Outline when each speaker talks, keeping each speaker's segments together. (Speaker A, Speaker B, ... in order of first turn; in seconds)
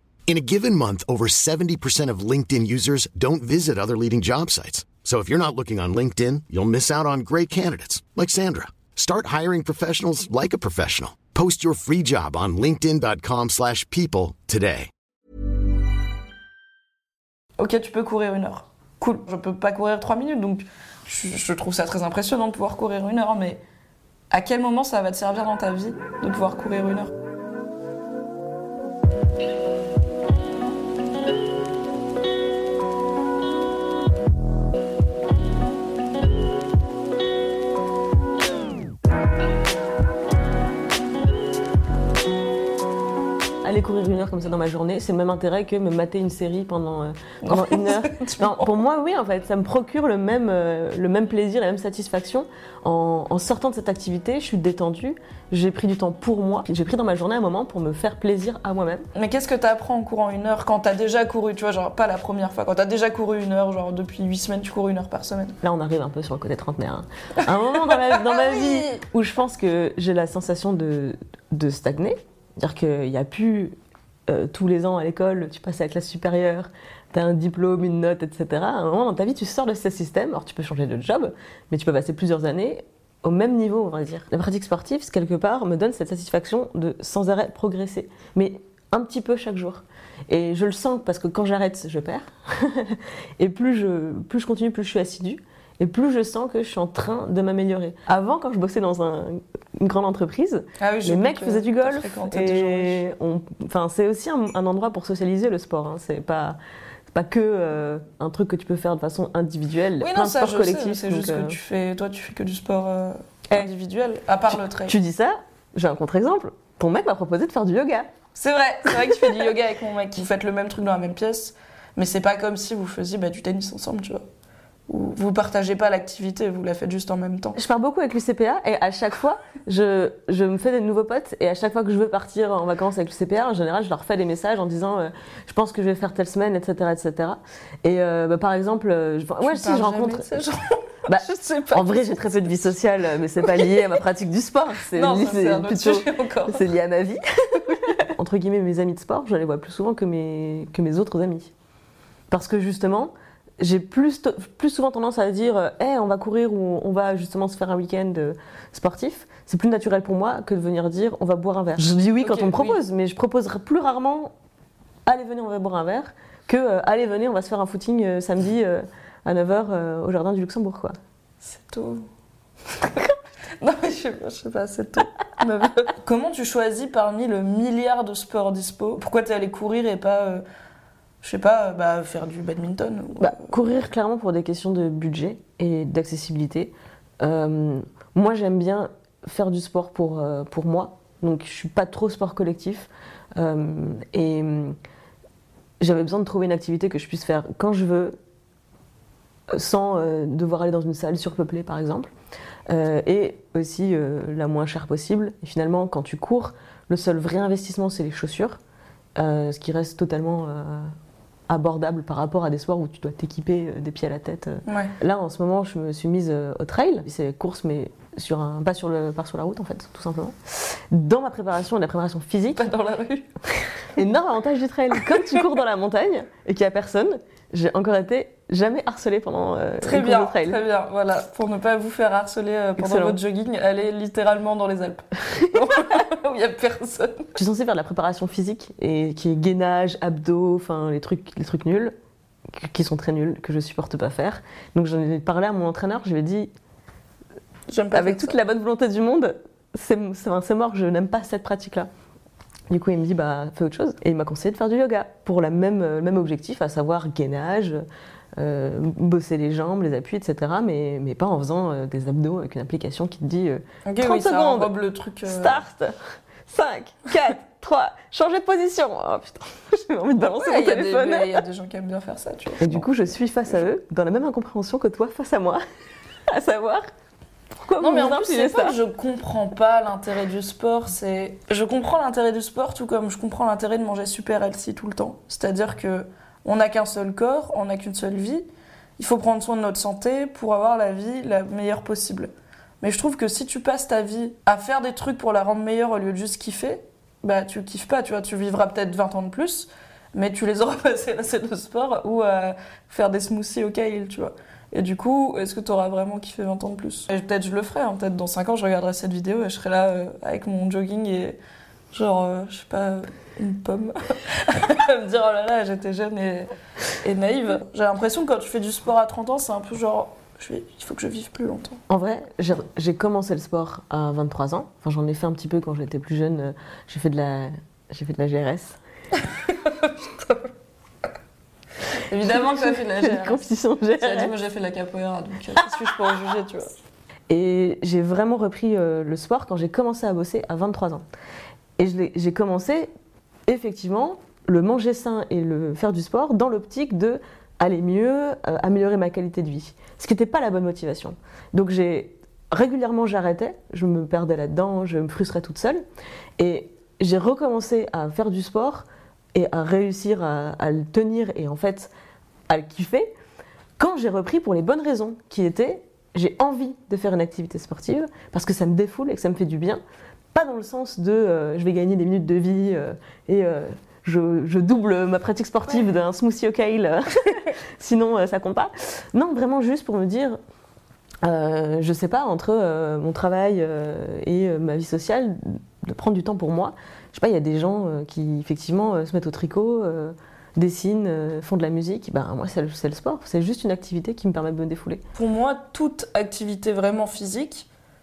Speaker A: 0.3-14.9
Speaker B: 17.6-23.6, 24.3-27.1, 47.4-48.6, 59.1-65.6, 67.9-69.0, 100.8-103.1, 110.0-115.0, 118.3-124.2, 124.9-127.6, 139.4-142.6, 143.4-143.8, 144.9-146.7, 162.2-162.8, 171.4-172.1, 172.8-173.1, 173.6-180.4, 181.2-183.6, 214.7-214.9, 222.6-224.1, 229.8-237.4, 247.7-248.4, 263.9-265.6, 270.2-272.9, 277.8-288.4, 289.0-311.4, 311.9-321.8, 329.2-330.5, 332.1-336.7, 395.1-397.7
Speaker C: 43.6-59.1, 65.6-73.8, 74.3-106.6, 107.1-111.6, 114.5-118.1, 127.5-140.4, 141.1-151.5, 152.3-164.3, 165.1-170.9, 183.2-194.8, 195.8-198.2, 199.5-202.1, 202.7-208.6, 209.2-210.9, 211.5-222.7, 224.0-230.6, 232.8-233.2, 237.4-241.9, 242.5-246.5, 247.9-251.9, 252.7-257.8, 258.4-271.4, 272.6-275.6, 276.3-276.9, 277.6-278.8, 321.9-328.8, 332.6-334.3, 337.3-341.1, 341.8-342.9, 343.5-355.8, 356.4-361.9, 362.5-363.1, 363.8-369.8, 370.3-380.4, 381.2-395.0